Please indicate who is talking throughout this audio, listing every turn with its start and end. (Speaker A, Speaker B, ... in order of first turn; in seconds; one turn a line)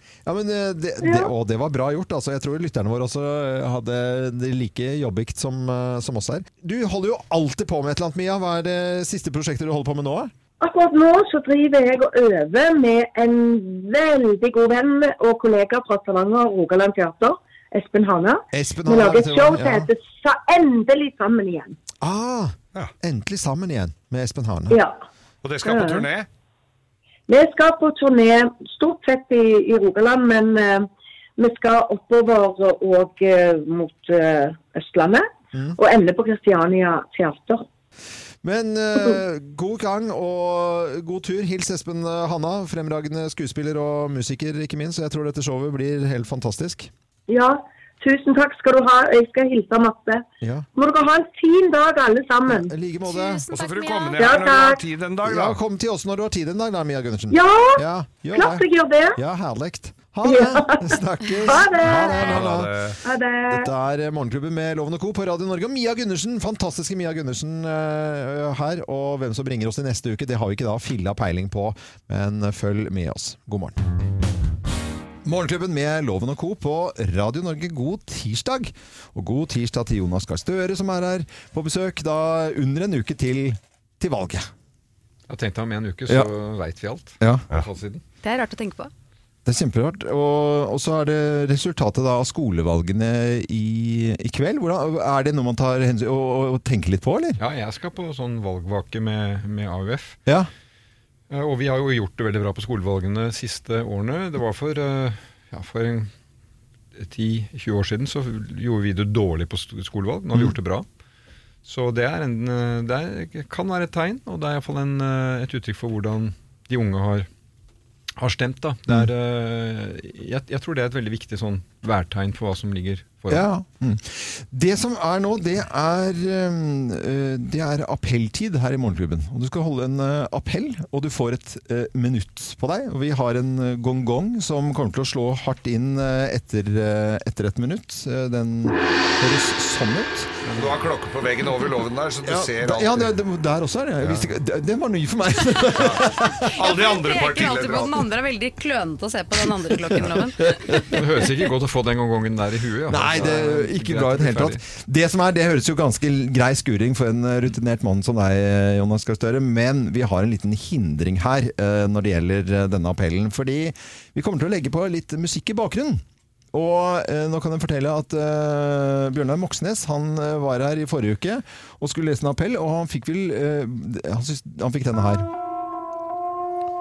Speaker A: 0.2-10.3
Speaker B: 1.0-1.3
Speaker B: 10.6-21.8
Speaker A: 18.5-19.9
Speaker A: 22.0-24.8
Speaker B: 24.7-24.9
Speaker C: 25.4-26.3
Speaker B: 25.6-26.1
Speaker B: 27.3-37.6
Speaker A: 38.4-46.9
Speaker B: 47.3-50.2
Speaker A: 50.4-50.7
Speaker B: 50.8-52.7
Speaker A: 52.5-53.4
Speaker D: 53.0-54.6
Speaker C: 53.5-55.6
Speaker B: 54.2-54.8
Speaker A: 55.2-62.7
Speaker B: 57.3-59.2
Speaker B: 60.2-62.4
Speaker C: 62.1-63.0
Speaker B: 63.0-63.7
Speaker A: 63.5-73.8
Speaker A: 75.2-84.5
Speaker E: 85.3-88.0
Speaker A: 87.2-87.5
Speaker D: 88.2-88.9
Speaker A: 89.5-97.4
Speaker E: 97.4-100.2
Speaker E: 101.3-106.1
Speaker E: 106.9-110.8
Speaker E: 111.6-117.3
Speaker E: 118.2-123.5
Speaker A: 123.3-140.3
Speaker E: 140.4-140.8
Speaker C: 140.6-143.1
Speaker A: 142.2-146.5
Speaker C: 145.7-148.0
Speaker D: 146.6-151.0
Speaker A: 150.4-150.9
Speaker E: 150.9-154.6
Speaker A: 152.9-166.0
Speaker A: 166.5-175.3